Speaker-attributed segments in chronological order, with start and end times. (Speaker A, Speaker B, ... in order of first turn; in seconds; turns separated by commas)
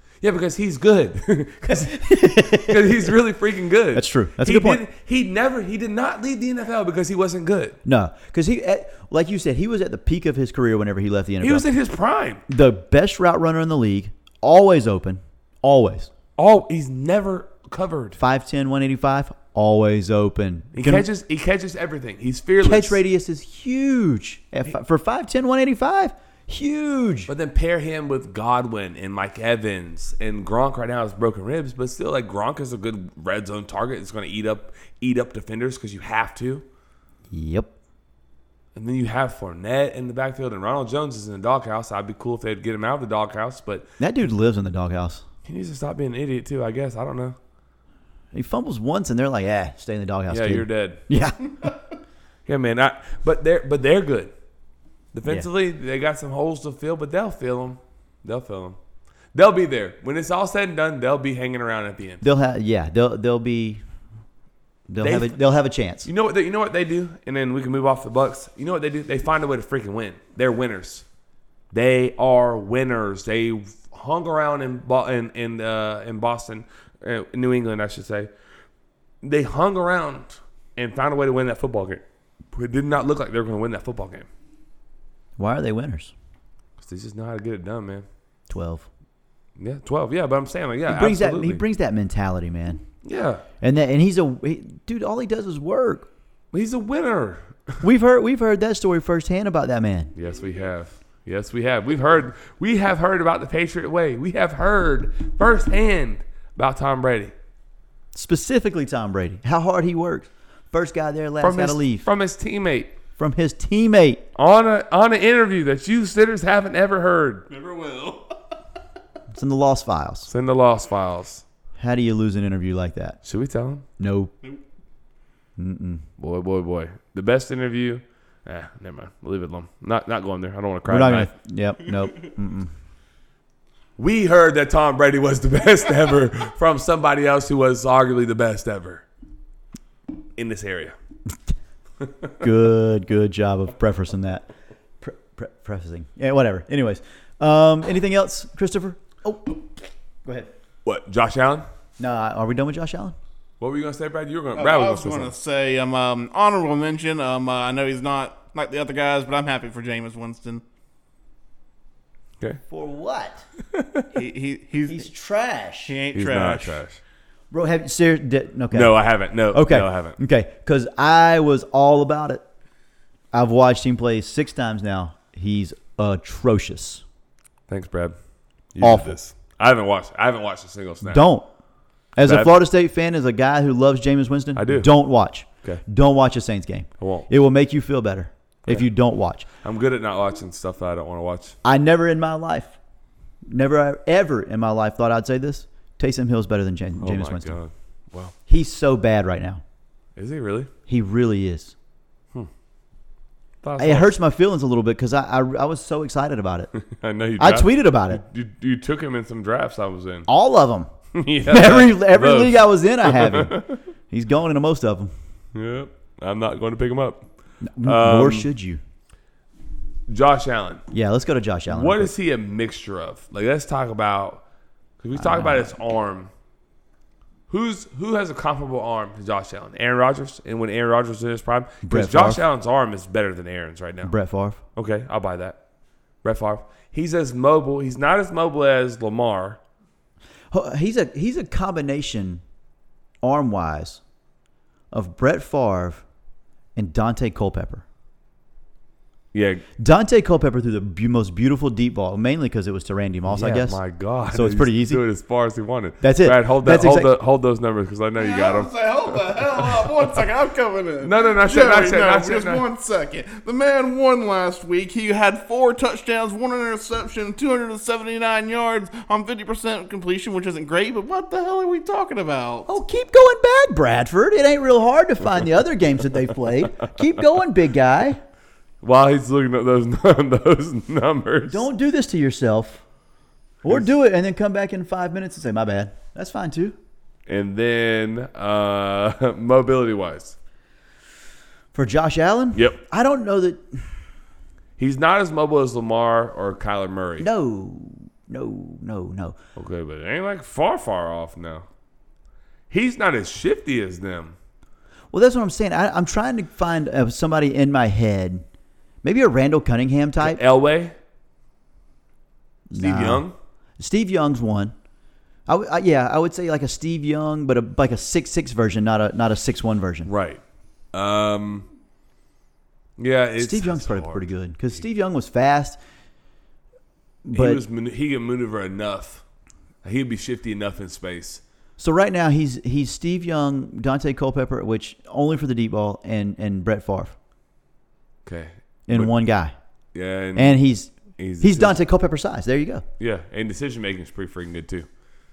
Speaker A: 0.2-7.8, Speaker B: 1.7-3.1, Speaker B: 3.9-4.8, Speaker B: 7.8-11.7, Speaker A: 11.4-12.4, Speaker B: 12.5-16.1, Speaker A: 16.4-18.2, Speaker B: 18.2-21.1, Speaker A: 20.7-23.0, Speaker B: 22.6-27.3, Speaker A: 27.3-36.6, Speaker B: 37.3-37.7, Speaker A: 38.7-43.9, Speaker B: 44.0-45.2, Speaker A: 45.5-47.4, Speaker B: 48.3-51.5, Speaker A: 50.3-51.1, Speaker A: 52.5-54.3, Speaker A: 55.1-58.8, Speaker A: 59.3-62.2, Speaker B: 62.2-63.8, Speaker B: 64.9-66.1, Speaker A: 65.0-65.4, Speaker A: 66.0-71.0, Speaker A: 71.7-78.3, Speaker A: 79.2-84.3, Speaker B: 85.4-86.1, Speaker A: 86.8-88.1, Speaker B: 88.5-88.9, Speaker A: 89.6-91.6, Speaker B: 90.9-92.8, Speaker A: 93.0-93.4, Speaker B: 93.6-96.1, Speaker A: 96.5-97.8, Speaker B: 97.8-100.1, Speaker A: 100.1-107.3, Speaker B: 108.1-112.0, Speaker A: 111.4-112.9, Speaker B: 113.2-114.2, Speaker A: 114.3-117.5, Speaker C: 117.5-118.5, Speaker B: 119.3-120.3, Speaker A: 120.3-121.4, Speaker B: 121.8-123.2, Speaker A: 123.2-123.8, Speaker B: 124.0-124.3, Speaker B: 125.6-126.0, Speaker A: 126.2-131.3, Speaker B: 130.9-132.7, Speaker A: 134.0-139.0, Speaker A: 140.3-141.0, Speaker A: 142.0-142.3, Speaker B: 142.4-144.5, Speaker B: 145.0-149.7, Speaker B: 150.2-150.5, Speaker A: 150.8-151.7, Speaker B: 152.0-153.1, Speaker A: 153.6-155.3, Speaker C: 154.5-160.6, Speaker B: 162.7-163.4, Speaker A: 163.7-164.1, Speaker C: 164.1-165.1, Speaker B: 164.9-165.9, Speaker C: 165.8-166.8, Speaker A: 166.1-167.0, Speaker B: 167.5-169.0, Speaker A: 168.7-170.2, Speaker B: 169.5-172.4, Speaker B: 173.3-177.0, Speaker A: 177.7-178.2, Speaker A: 178.7-181.2, Speaker B: 178.8-179.2, Speaker B: 181.0-181.5, Speaker B: 182.1-189.5, Speaker A: 182.2-182.5, Speaker A: 184.6-184.9, Speaker A: 187.0-187.3, Speaker A: 189.6-191.6, Speaker B: 191.6-192.8, Speaker B: 193.5-197.6, Speaker A: 197.0-198.3, Speaker B: 198.5-199.6, Speaker A: 200.2-200.7, Speaker B: 200.9-201.7, Speaker A: 203.6-204.1, Speaker B: 203.8-206.7, Speaker A: 206.7-210.3, Speaker B: 207.4-208.2, Speaker B: 210.3-210.9, Speaker A: 211.1-213.8, Speaker B: 211.5-215.1, Speaker A: 215.5-217.3, Speaker B: 217.6-218.8, Speaker A: 217.8-218.5, Speaker A: 220.1-220.8, Speaker B: 220.9-222.1, Speaker A: 221.7-224.4, Speaker A: 225.0-226.3, Speaker B: 225.1-225.7, Speaker A: 227.5-234.1, Speaker B: 231.8-232.4, Speaker B: 234.0-234.6, Speaker A: 234.7-235.6, Speaker A: 236.2-239.6, Speaker B: 240.5-242.4, Speaker B: 243.2-244.0, Speaker B: 244.9-246.0, Speaker B: 246.8-247.8, Speaker A: 249.3-249.6, Speaker B: 249.8-255.0, Speaker A: 253.3-260.2, Speaker B: 256.0-257.1, Speaker C: 258.2-272.7, Speaker A: 261.0-262.6, Speaker B: 272.7-278.2, Speaker A: 278.8-281.6, Speaker B: 281.5-282.8, Speaker B: 283.6-286.8, Speaker A: 287.3-290.4, Speaker B: 291.7-293.9, Speaker A: 294.8-297.3, Speaker B: 297.2-299.4, Speaker A: 299.6-301.7, Speaker A: 302.7-304.4, Speaker B: 305.1-308.4, Speaker B: 309.0-310.4, Speaker A: 310.2-311.0, Speaker B: 312.7-313.2, Speaker A: 312.7-313.3, Speaker B: 313.8-314.7, Speaker B: 315.5-320.1, Speaker A: 320.1-320.4, Speaker A: 320.9-321.7, Speaker A: 323.0-324.3, Speaker B: 323.4-325.8, Speaker B: 327.2-327.6, Speaker A: 327.3-329.2, Speaker A: 329.8-331.4, Speaker B: 331.8-337.1, Speaker A: 338.2-339.1, Speaker B: 338.9-339.5, Speaker A: 339.9-340.6, Speaker B: 340.4-342.8, Speaker A: 341.1-341.8, Speaker A: 343.0-344.9